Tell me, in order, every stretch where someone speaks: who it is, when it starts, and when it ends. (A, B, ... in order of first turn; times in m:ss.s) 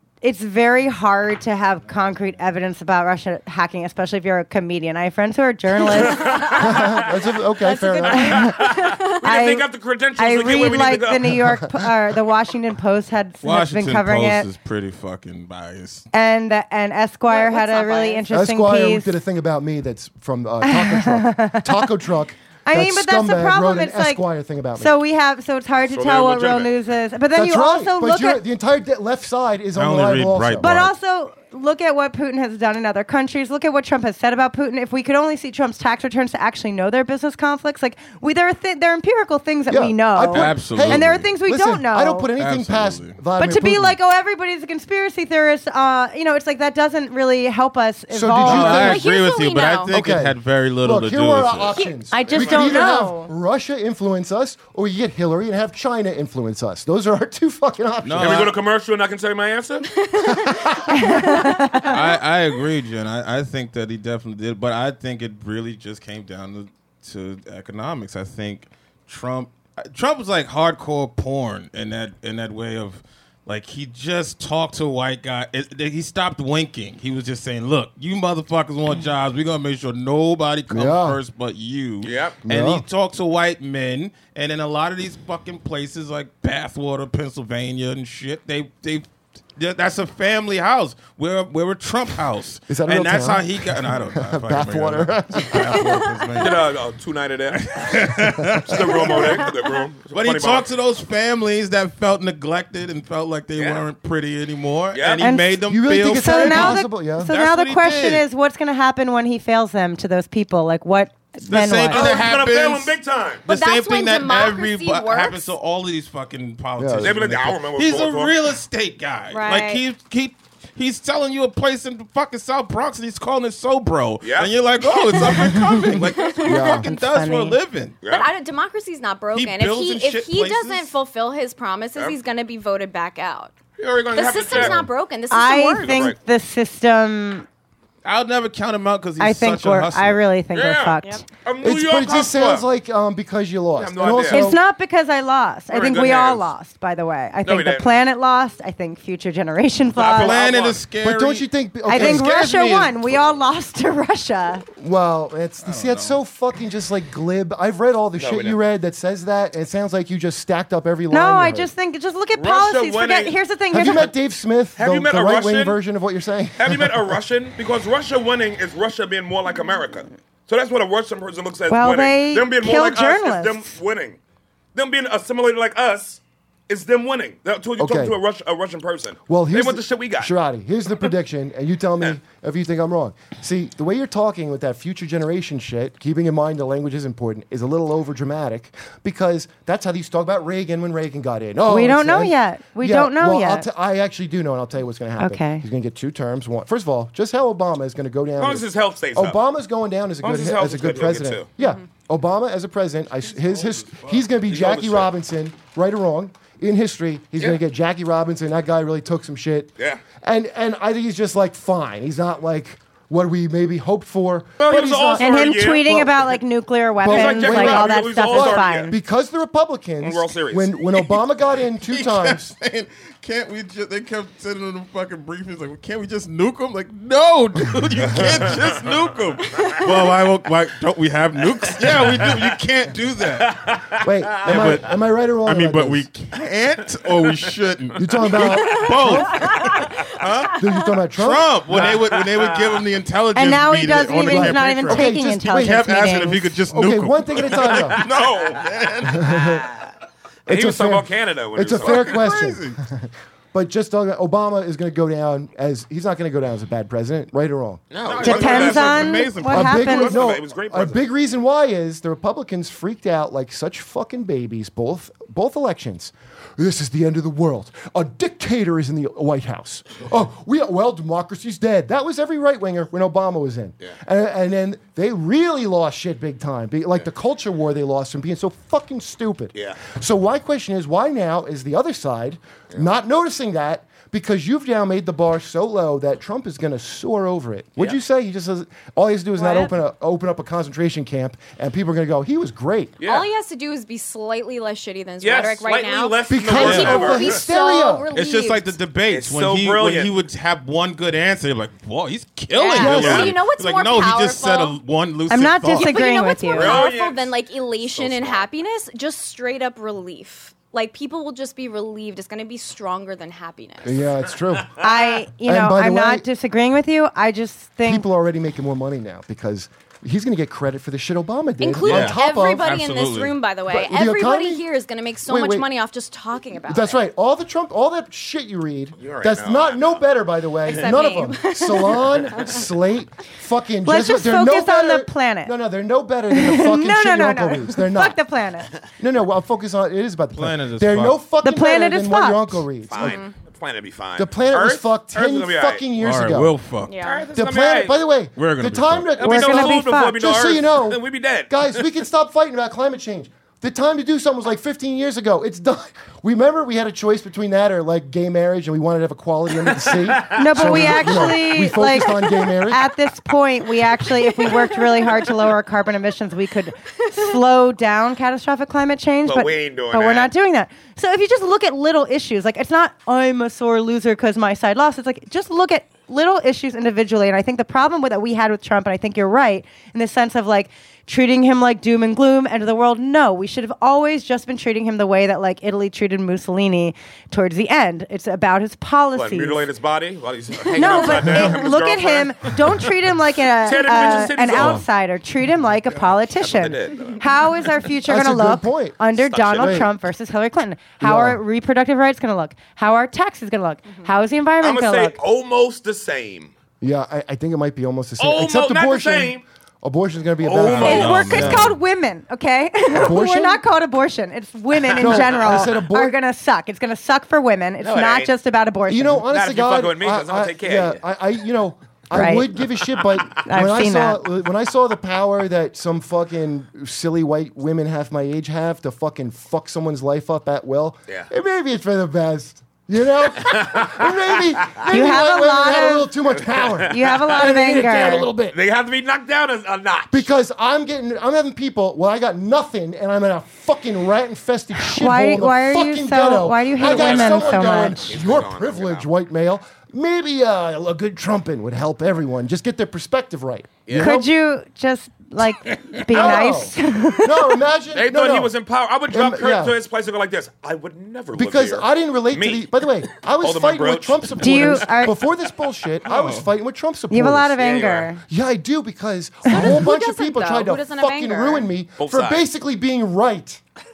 0:00.2-0:06.9 A
0:05.9-0:07.1 B
0:06.2-0:08.6 C
0:07.6-0:09.6 A
0:08.1-0:11.4 B
0:10.2-0:14.5 A
0:13.4-0:16.0 D
0:16.1-0:19.2 A
0:17.3-0:18.2 E
0:18.3-0:25.0 C
0:20.6-0:21.9 A
0:22.6-0:24.2 A
0:24.8-0:28.4 A
0:25.9-0:26.7 B
0:27.3-0:30.7 C
0:29.7-0:30.9 D
0:30.6-0:42.3 A
0:39.7-0:44.0 C
0:40.3-0:41.3 D
0:42.4-0:43.2 D
0:43.4-0:49.0 A
0:48.1-0:49.0 C
0:48.4-0:51.8 D
0:48.6-0:49.9 E
0:49.9-0:58.4 C
0:52.1-0:53.3 A
0:52.2-0:52.7 B
0:58.0-0:58.6 D
0:58.2-0:59.9 B
0:59.9-1:02.1 E
1:00.2-1:00.9 C
1:00.9-1:01.9 A
1:01.8-1:36.7 D
1:20.7-1:21.2 C
1:22.0-1:22.4 B
1:22.4-1:22.8 C
1:32.7-1:36.0 C
1:36.4-1:38.0 B
1:37.5-1:39.5 D
1:38.6-1:40.7 B
1:40.1-1:48.2 D
1:43.5-1:43.8 B
1:44.9-1:45.3 B
1:45.2-1:52.0 A
1:45.6-1:47.3 C
1:51.4-1:52.9 D
1:51.9-1:53.4 B
1:52.0-1:52.3 E
1:53.5-2:08.0 D
1:53.5-1:55.5 E
1:56.8-1:57.2 C
1:57.0-1:58.4 B
1:59.3-1:59.8 E
2:04.2-2:04.5 B
2:05.5-2:05.9 A
2:05.9-2:06.7 E
2:06.4-2:06.9 C
2:06.7-2:07.6 A
2:08.0-2:08.3 B
2:08.0-2:13.5 E
2:09.3-2:10.9 D
2:13.8-2:14.9 B
2:14.1-2:16.0 E
2:15.3-2:17.5 A
2:15.8-2:16.2 B
2:18.0-2:20.2 D
2:19.2-2:21.2 A
2:20.5-2:22.6 B
2:21.6-2:24.6 C
2:23.8-2:24.5 B
2:24.3-2:30.4 A
2:25.7-2:26.5 B
2:27.4-2:27.9 B
2:29.9-2:30.8 B
2:30.0-2:33.2 D
2:31.0-2:32.4 C
2:31.9-2:34.6 A
2:34.8-2:41.7 C
2:35.6-2:36.2 D
2:38.1-2:38.6 B
2:41.1-2:44.1 A
2:42.3-2:43.4 B
2:43.7-2:47.2 C
2:44.8-2:45.8 B
2:46.6-2:54.2 B
2:51.7-2:53.7 A
2:54.7-3:00.3 B
2:57.8-2:58.2 C
2:59.3-3:36.1 C
3:11.7-3:13.7 A
3:15.2-3:15.6 A
3:18.4-3:19.4 B
3:20.2-3:21.5 B
3:23.2-3:24.2 D
3:24.5-3:25.1 B
3:34.6-3:36.1 B
3:35.2-3:39.0 A
3:37.0-3:42.5 C
3:37.1-3:38.9 B
3:40.0-3:40.7 B
3:41.0-3:53.5 D
3:48.2-3:48.6 B
3:51.7-3:52.5 B
3:53.4-3:54.8 B
3:54.0-3:56.1 C
3:54.4-3:54.9 D
3:55.4-4:09.6 D
3:57.0-3:57.5 B
3:58.0-3:59.6 C
3:58.5-3:59.7 E
4:00.5-4:02.0 C
4:01.7-4:02.8 B
4:03.3-4:06.4 A
4:04.2-4:06.2 C
4:06.7-4:08.0 C
4:07.6-4:08.6 B
4:09.0-4:09.7 C
4:10.4-4:17.8 C
4:10.5-4:12.1 B
4:11.8-4:12.8 D
4:17.9-4:21.0 B
4:18.0-4:19.9 D
4:18.2-4:20.1 A
4:19.5-4:53.0 C
4:49.4-4:49.7 E
4:53.0-4:53.3 B
4:53.0-4:58.8 E
4:55.2-4:57.5 B
4:56.3-4:58.1 C
4:56.6-4:57.0 D
4:58.1-5:06.0 D
4:59.1-5:00.1 B
5:02.5-5:04.8 E
5:02.8-5:03.4 C
5:02.9-5:03.3 B
5:05.3-5:06.8 A
5:05.7-5:14.1 E
5:06.5-5:08.5 B
5:13.8-5:14.7 C
5:14.8-5:18.0 A
5:15.4-5:16.2 C
5:17.8-5:22.6 C
5:21.6-5:27.0 E
5:21.8-5:23.4 D
5:23.7-5:24.6 C
5:25.2-5:25.7 C
5:26.7-5:38.2 C
5:29.0-5:30.0 B
5:30.6-5:32.6 E
5:30.7-5:31.0 B
5:33.8-5:35.5 A
5:36.3-5:38.7 A
5:39.0-5:43.2 C
5:40.3-5:41.2 D
5:41.4-5:42.6 A
5:42.9-5:45.8 B
5:43.0-5:43.3 E
5:44.2-5:46.5 C
5:46.0-5:47.0 D
5:46.8-5:47.2 E
5:47.0-5:48.0 B
5:47.3-6:02.9 C
5:48.4-5:49.1 D
5:49.2-5:51.9 B
5:49.2-5:50.2 A
5:59.6-6:01.0 B
6:00.3-6:29.6 A
6:04.6-6:05.2 E
6:09.2-6:10.3 B
6:29.1-6:32.6 B
6:30.8-6:45.2 A
6:30.8-6:31.2 E
6:31.2-6:31.6 C
6:33.6-6:34.8 B
6:34.6-6:34.8 C
6:36.4-6:37.5 B
6:38.0-6:39.0 C
6:39.2-6:39.9 B
6:39.5-6:39.9 C
6:41.0-6:41.4 C
6:44.6-6:46.5 B
6:46.8-6:51.7 C
6:48.2-6:49.4 B
6:50.4-6:51.6 B
6:50.5-6:51.8 D
6:50.7-6:59.2 A
6:52.9-6:53.6 C
6:55.0-6:56.2 C
6:55.0-6:55.7 B
6:57.8-6:58.3 B
6:58.9-7:18.6 C
6:59.3-7:01.0 B
7:02.1-7:02.5 A
7:03.4-7:04.2 A
7:13.4-7:14.8 B
7:14.9-7:16.1 A
7:16.4-7:20.3 B
7:16.9-7:18.3 A
7:20.1-7:34.3 C
7:24.9-7:28.0 A
7:26.8-7:29.1 B
7:34.0-7:37.6 A
7:36.1-7:38.5 C
7:37.9-7:44.9 B
7:39.1-7:39.8 C
7:41.3-7:47.6 C
7:44.4-7:45.2 A
7:46.0-7:46.4 D
7:47.1-7:48.2 A
7:47.6-7:48.1 B
7:48.3-7:53.6 C
7:49.5-7:51.7 E
7:52.0-7:52.4 B